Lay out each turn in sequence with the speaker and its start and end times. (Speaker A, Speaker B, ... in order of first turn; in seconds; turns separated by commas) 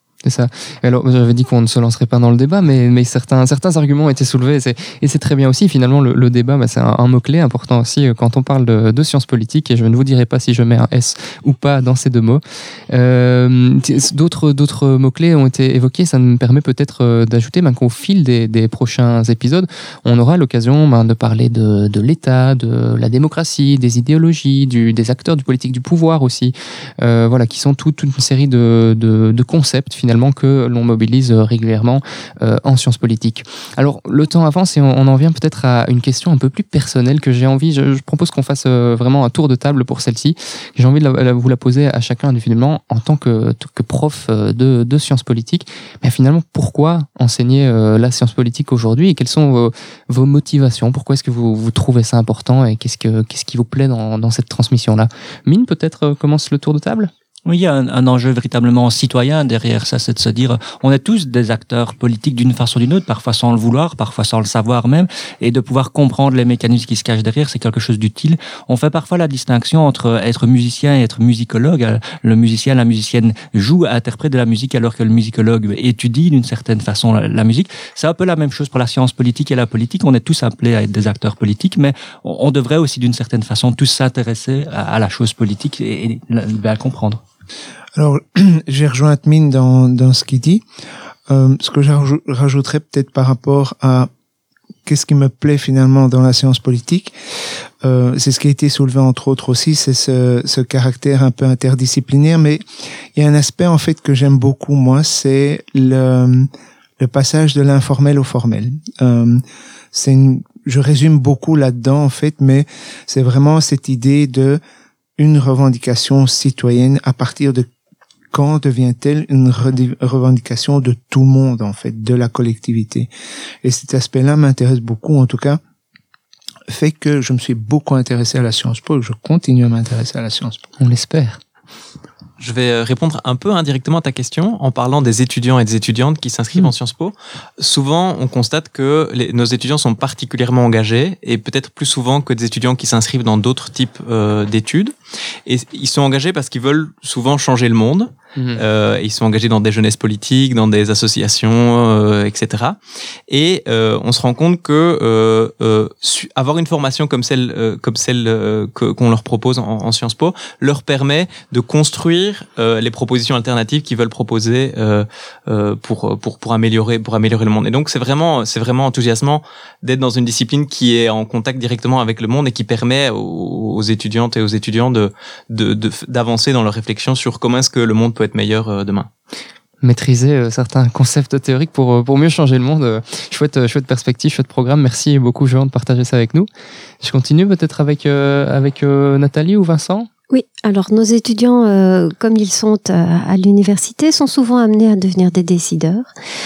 Speaker A: 0.2-57.1, Speaker B: 57.5-87.2, Speaker C: 88.0-90.6, Speaker C: 91.3-94.1, Speaker C: 94.8-97.1, Speaker C: 97.8-102.6, Speaker C: 103.1-114.6, Speaker C: 115.2-117.7, Speaker C: 118.3-123.1, Speaker C: 123.6-125.6, Speaker C: 126.7-130.6, Speaker A: 130.8-131.4, Speaker D: 132.4-144.9, Speaker D: 145.5-152.8, Speaker A: 148.4-148.6, Speaker D: 153.3-179.1, Speaker A: 179.8-186.5, Speaker A: 187.0-190.1, Speaker E: 190.3-196.1